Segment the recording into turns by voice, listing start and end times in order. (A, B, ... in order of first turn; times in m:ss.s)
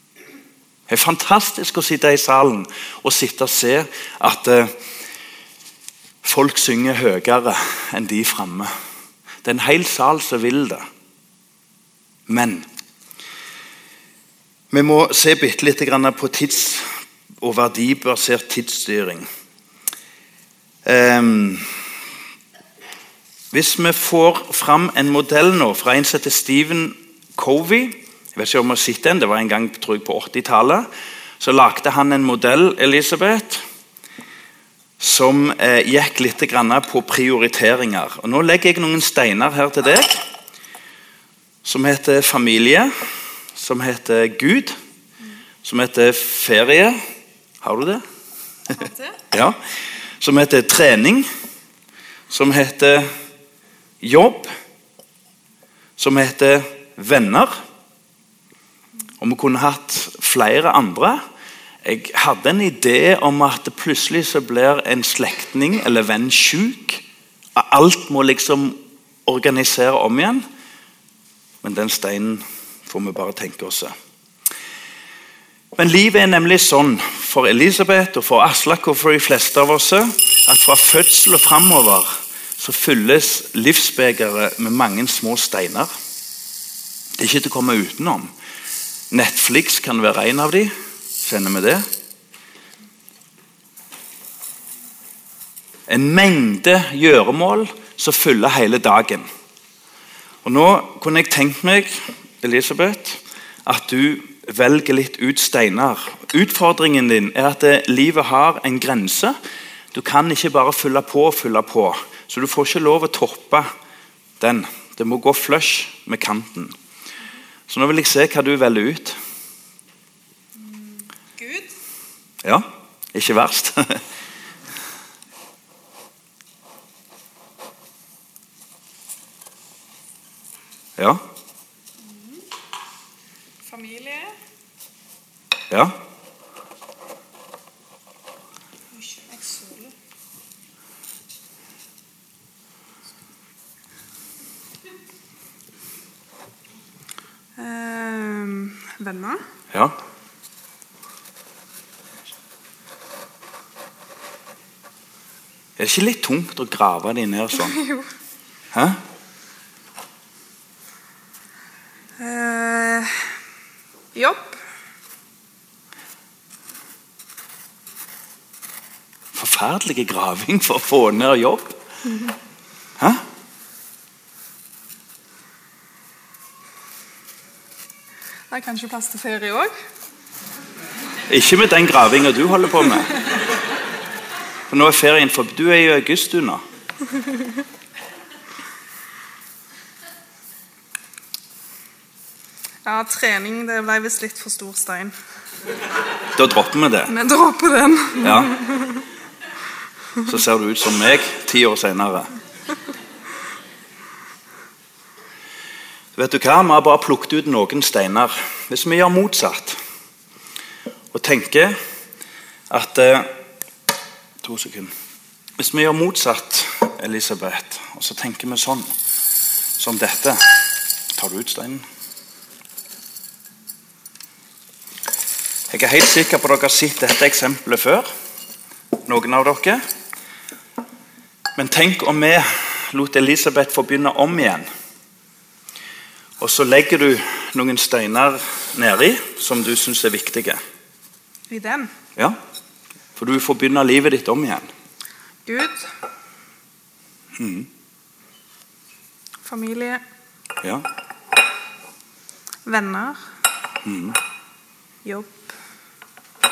0:00.9-0:04.7 A
0:06.2-0:08.7 A
0:09.4-0:10.9 A
0:12.3-0:12.7 A
0:14.7-0:16.9 A
0:17.4-0:19.3 A
0:20.8-0:21.7 A
0:23.5-0:30.9 A
0:31.4-0:33.6 A
0:35.0-0:40.2 A
0:41.6-0:42.9 A
0:43.6-0:44.8 A
0:45.6-0:47.0 A
0:47.6-0:48.0 A
0:48.7-0:49.2 B
0:49.3-0:49.6 A
0:50.2-0:51.3 A
0:52.3-0:53.1 A
0:54.0-0:54.5 A
0:56.0-0:57.6 A
0:59.2-1:01.2 A
1:01.8-1:07.0 A
1:07.6-1:10.4 A
1:11.6-1:13.9 A
1:15.8-1:25.9 A
1:27.2-1:28.3 A
1:29.1-1:31.8 A
1:35.9-1:39.3 A
1:40.4-1:49.4 A
1:49.9-1:53.7 A
1:54.4-1:56.8 A
1:57.7-1:59.2 A
2:00.6-2:01.7 B
2:02.4-2:04.0 A
2:12.0-2:12.4 B
2:13.6-2:14.4 B
2:15.7-2:16.0 A
2:18.9-2:19.9 B
2:27.6-2:29.4 B
2:35.8-2:37.8 A
2:37.7-2:38.1 B
2:38.7-2:39.0 A
2:42.2-2:43.2 B
2:44.1-2:44.6 B
2:49.3-2:51.8 A
2:58.5-2:59.7 B
3:01.3-3:03.2 A
3:04.7-3:06.6 A
3:12.8-3:15.2 B
3:16.4-3:17.1 A
3:17.1-3:19.1 B
3:18.2-3:18.6 A
3:20.2-3:22.3 A
3:26.2-3:29.8 A
3:31.1-3:31.8 A
3:32.7-3:33.3 A
3:34.4-3:34.9 A
3:35.6-3:38.9 A
3:39.8-3:40.6 A
3:41.2-3:41.8 A
3:45.7-3:48.1 A
3:49.1-3:49.8 A
3:51.6-3:54.7 A
3:56.4-4:00.6 A
4:01.5-4:01.9 B
4:03.2-4:04.7 A
4:05.4-4:05.9 B
4:07.4-4:07.7 A
4:09.4-4:10.0 B
4:12.6-4:13.2 B
4:13.8-4:14.2 A
4:15.0-4:15.5 B